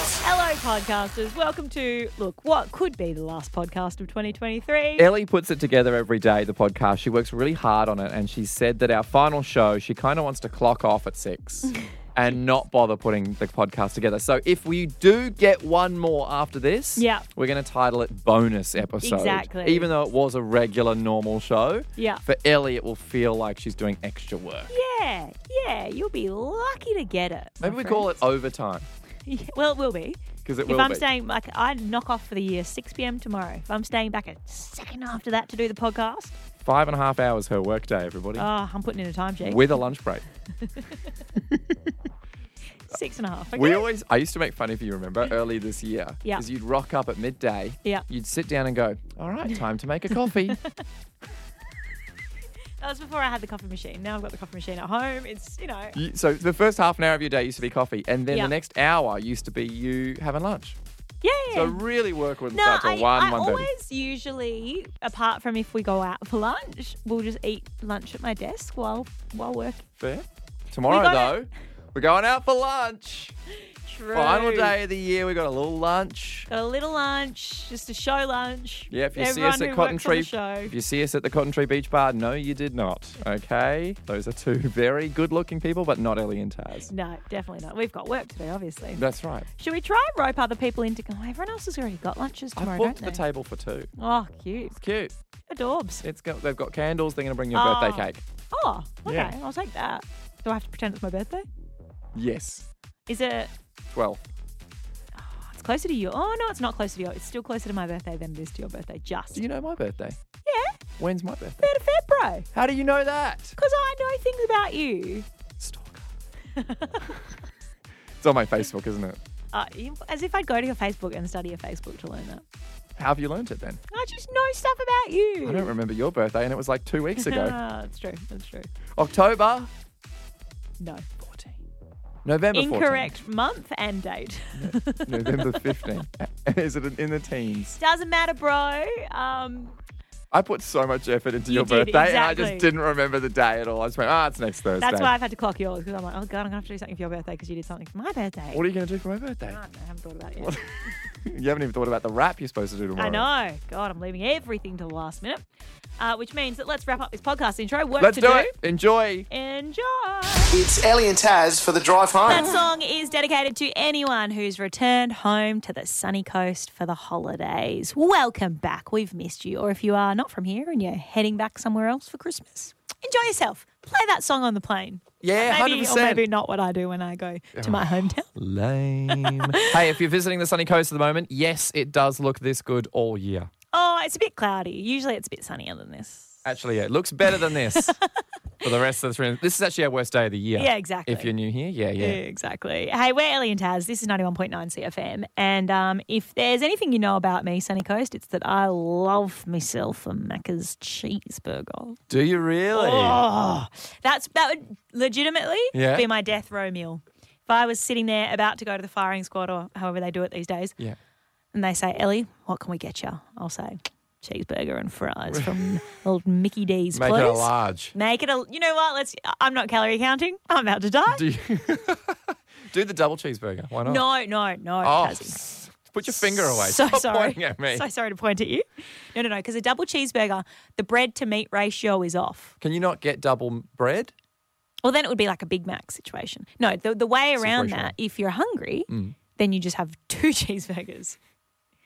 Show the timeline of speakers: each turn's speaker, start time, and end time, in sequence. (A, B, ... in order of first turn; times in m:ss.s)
0:00.2-0:05.1 A
0:05.0-0:24.7 B
0:17.0-0:17.2 A
0:19.0-0:19.9 A
0:22.0-0:22.2 A
0:24.7-0:28.1 A
0:27.6-0:28.9 B
0:29.3-0:36.4 A
0:30.4-0:31.0 B
0:36.6-0:38.5 B
0:38.4-0:39.7 A
0:39.4-0:40.2 B
0:42.9-0:43.8 A
0:43.5-0:50.6 B
0:50.3-0:50.8 A
0:52.8-0:56.0 A
0:55.9-1:00.8 B
1:01.2-1:01.8 A
1:01.5-1:03.7 B
1:02.5-1:09.8 A
1:10.0-1:13.3 B
1:10.9-1:11.3 A
1:13.9-1:14.7 A
1:14.1-1:16.5 B
1:16.5-1:20.7 A
1:18.9-1:26.9 B
1:26.9-1:29.0 A
1:29.0-1:29.5 B
1:29.6-1:33.2 A
1:32.6-1:33.9 B
1:34.0-1:34.8 A
1:34.7-1:35.1 B
1:35.5-1:36.0 A
1:36.0-1:38.2 B
1:37.5-1:41.4 A
1:39.0-1:39.3 B
1:42.1-1:42.6 B
1:43.1-1:43.5 A
1:43.9-1:44.3 B
1:45.2-1:49.4 A
1:49.3-1:50.2 B
1:50.4-1:50.7 A
1:51.0-1:51.6 B
1:51.6-1:52.4 A
1:52.5-1:53.6 B
1:53.6-1:55.2 A
1:55.6-1:56.0 B
1:56.6-1:57.1 A
1:58.2-1:59.2 B
1:59.5-2:02.4 A
2:03.0-2:03.8 B
2:03.9-2:05.7 A
2:05.4-2:07.6 B
2:07.2-2:08.7 A
2:09.0-2:09.7 B
2:10.8-2:11.0 A
2:11.2-2:11.6 B
2:12.2-2:13.2 B
2:12.5-2:15.8 A
2:14.6-2:17.8 B
2:17.8-2:19.8 A
2:20.3-2:25.1 B
2:21.5-2:22.7 A
2:24.8-2:28.6 A
2:28.5-2:29.6 B
2:29.4-2:30.9 A
2:30.4-2:33.3 B
2:33.0-2:35.4 A
2:36.0-2:38.5 A
2:38.0-2:39.3 B
2:39.3-2:40.5 A
2:40.5-2:42.5 C
2:42.3-2:58.3 A
2:55.2-2:56.2 B
2:57.5-3:03.5 B
2:59.1-2:59.8 A
3:03.7-3:06.4 A
3:06.4-3:07.9 B
3:07.4-3:07.9 A
3:08.6-3:12.2 B
3:10.6-3:11.3 A
3:12.0-3:22.0 A
3:22.1-3:23.2 B
3:22.7-3:30.8 A
3:25.7-3:26.0 B
3:31.5-3:41.2 A
3:35.3-3:35.8 B
3:36.9-3:37.9 B
3:41.1-3:44.0 B
3:43.8-3:45.4 A
3:44.8-3:47.8 B
3:46.2-3:52.5 A
3:52.6-3:54.1 B
3:54.8-4:01.2 A
3:57.4-3:57.9 B
3:58.9-3:59.2 B